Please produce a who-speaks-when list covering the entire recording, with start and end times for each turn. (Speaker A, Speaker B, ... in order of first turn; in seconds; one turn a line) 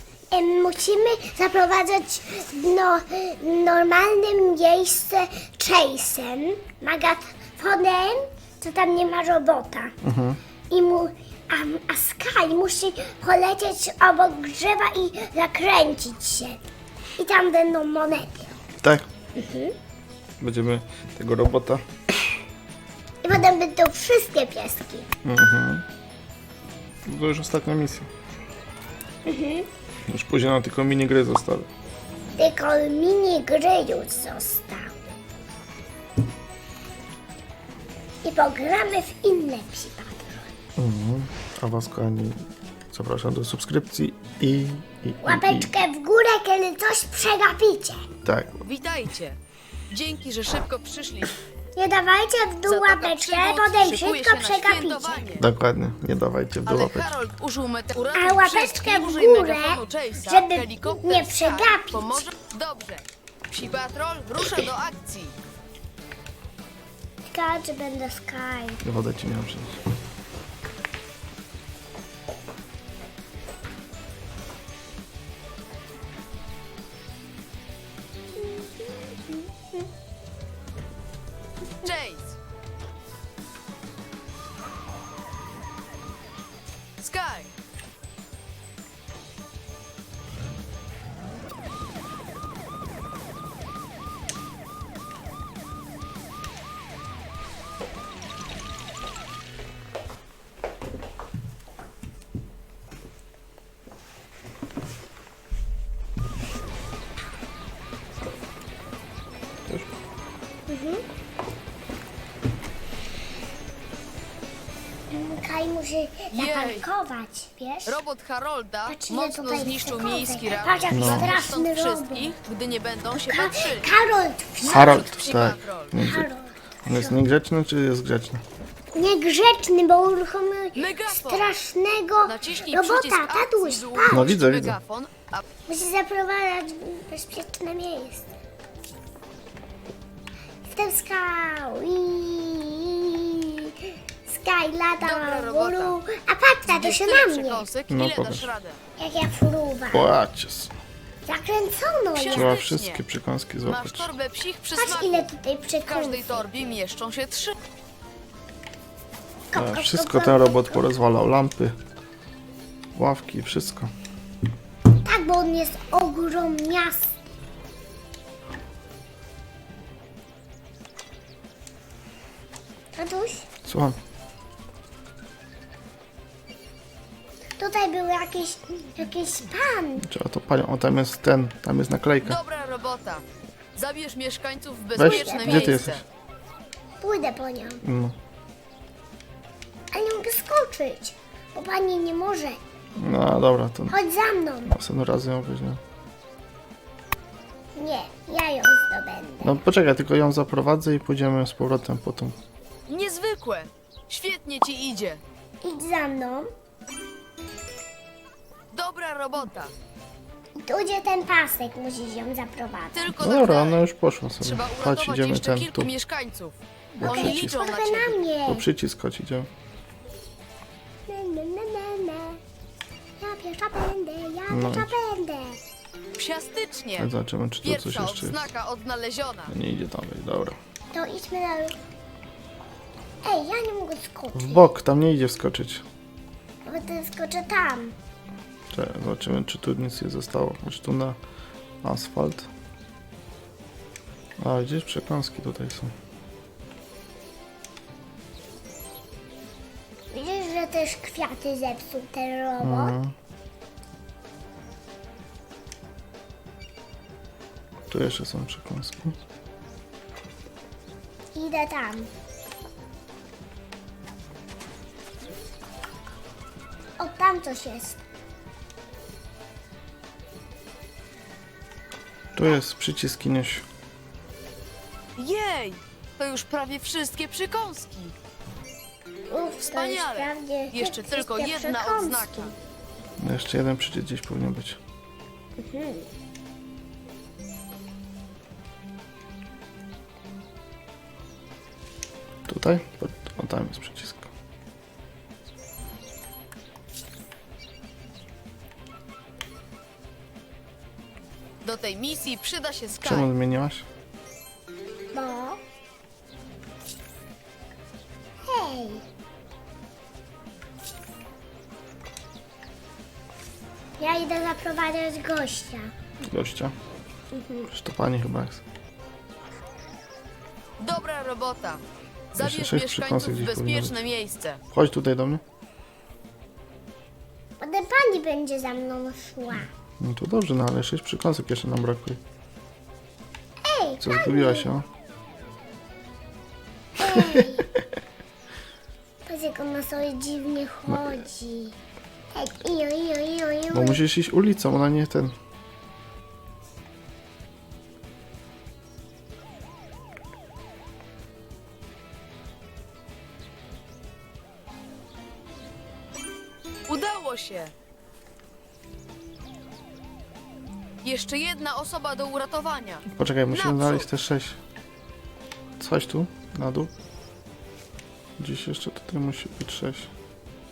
Speaker A: 0.3-10.0
Speaker B: 10.0-10.4
Speaker A: 10.7-16.6
Speaker A: 17.2-18.5
Speaker A: 19.4-19.8
Speaker B: 20.4-21.8
Speaker A: 23.2-25.1
Speaker B: 25.2-25.9
Speaker B: 27.1-28.1
Speaker A: 29.2-29.7
Speaker B: 30.1-31.7
Speaker A: 32.4-35.0
Speaker A: 38.2-40.5
Speaker B: 40.8-45.7
Speaker A: 45.2-48.0
Speaker B: 48.2-48.6
Speaker C: 48.6-49.4
Speaker C: 49.9-51.4
Speaker A: 51.8-55.3
Speaker C: 52.7-55.5
Speaker B: 55.4-57.2
Speaker C: 56.7-65.4
Speaker A: 58.1-62.3
Speaker A: 67.3-68.8
Speaker B: 68.8-69.8
Speaker A: 78.4-79.5
Speaker C: 81.8-82.4
Speaker C: 87.0-87.5
Speaker A: 110.7-111.0
Speaker A: 115.1-118.0
Speaker C: 116.3-116.8
Speaker C: 117.9-123.9
Speaker A: 118.9-122.4
Speaker B: 120.9-121.4
Speaker A: 123.1-125.4
Speaker C: 124.6-126.0
Speaker B: 124.6-126.3
Speaker A: 125.9-127.2
Speaker B: 126.8-128.4
Speaker A: 128.9-134.3
Speaker C: 130.8-131.6
Speaker C: 132.2-135.4
Speaker B: 134.1-134.8
Speaker A: 135.7-138.3
Speaker A: 140.7-147.7
Speaker C: 145.0-146.0
Speaker C: 146.7-148.8
Speaker B: 147.9-148.5
Speaker A: 149.0-150.1
Speaker B: 149.9-150.7
Speaker A: 151.3-152.6
Speaker C: 152.2-153.0
Speaker B: 152.3-154.1
Speaker C: 153.7-155.3
Speaker A: 154.7-156.6
Speaker C: 155.8-157.6
Speaker A: 159.5-160.9
Speaker B: 159.5-161.8
Speaker B: 162.9-163.9
Speaker A: 165.0-167.1
Speaker A: 172.9-173.5
Speaker B: 173.7-174.0
Speaker A: 177.6-180.1
Speaker B: 180.0-182.4
Speaker C: 182.2-183.2
Speaker C: 183.8-186.1
Speaker B: 185.0-186.0
Speaker A: 185.0-185.9
Speaker A: 187.0-187.8
Speaker B: 187.8-188.2
Speaker A: 189.9-192.6
Speaker B: 193.0-193.9
Speaker A: 193.9-194.8
Speaker B: 194.7-195.8
Speaker A: 197.8-199.6
Speaker B: 199.4-202.4
Speaker C: 202.9-205.2
Speaker A: 205.6-206.5
Speaker C: 208.7-209.7
Speaker A: 210.6-213.4
Speaker C: 212.9-213.8
Speaker B: 213.2-215.9
Speaker C: 214.4-218.2
Speaker B: 217.0-217.6
Speaker A: 217.0-218.7
Speaker B: 218.5-219.5
Speaker A: 221.1-222.4
Speaker A: 223.2-225.6
Speaker B: 224.5-224.9
Speaker C: 226.2-227.1
Speaker B: 227.0-228.5
Speaker C: 227.6-229.5
Speaker B: 229.5-230.6
Speaker A: 230.9-231.8
Speaker A: 233.2-234.7
Speaker B: 234.3-235.8
Speaker A: 236.7-237.9
Speaker B: 238.7-241.2
Speaker B: 241.8-242.5
Speaker B: 244.4-245.9
Speaker A: 250.1-253.0
Speaker B: 252.6-253.2
Speaker B: 257.9-259.2
Speaker A: 261.3-262.1
Speaker A: 267.0-268.0
Speaker B: 272.4-273.7
Speaker C: 275.2-278.1
Speaker A: 279.3-282.5
Speaker C: 279.6-282.5
Speaker B: 283.2-284.8
Speaker A: 285.6-286.1
Speaker B: 292.5-294.3
Speaker C: 301.6-303.3
Speaker B: 303.0-303.9
Speaker A: 305.1-305.6
Speaker A: 308.4-309.0
Speaker A: 314.0-315.9
Speaker B: 316.2-316.8
Speaker A: 317.3-317.7
Speaker B: 317.7-318.6
Speaker C: 320.8-321.8
Speaker C: 322.3-324.6
Speaker B: 322.4-324.0
Speaker B: 324.7-325.4
Speaker A: 327.6-329.7
Speaker B: 330.0-332.2
Speaker A: 333.6-334.7
Speaker B: 334.0-334.9
Speaker A: 337.0-337.7
Speaker B: 337.1-337.5
Speaker A: 339.2-341.8
Speaker B: 340.9-341.2
Speaker A: 342.3-344.1
Speaker B: 343.7-345.4
Speaker C: 356.9-357.7
Speaker C: 361.0-364.1
Speaker B: 363.1-364.6
Speaker B: 365.8-366.9
Speaker B: 368.4-370.1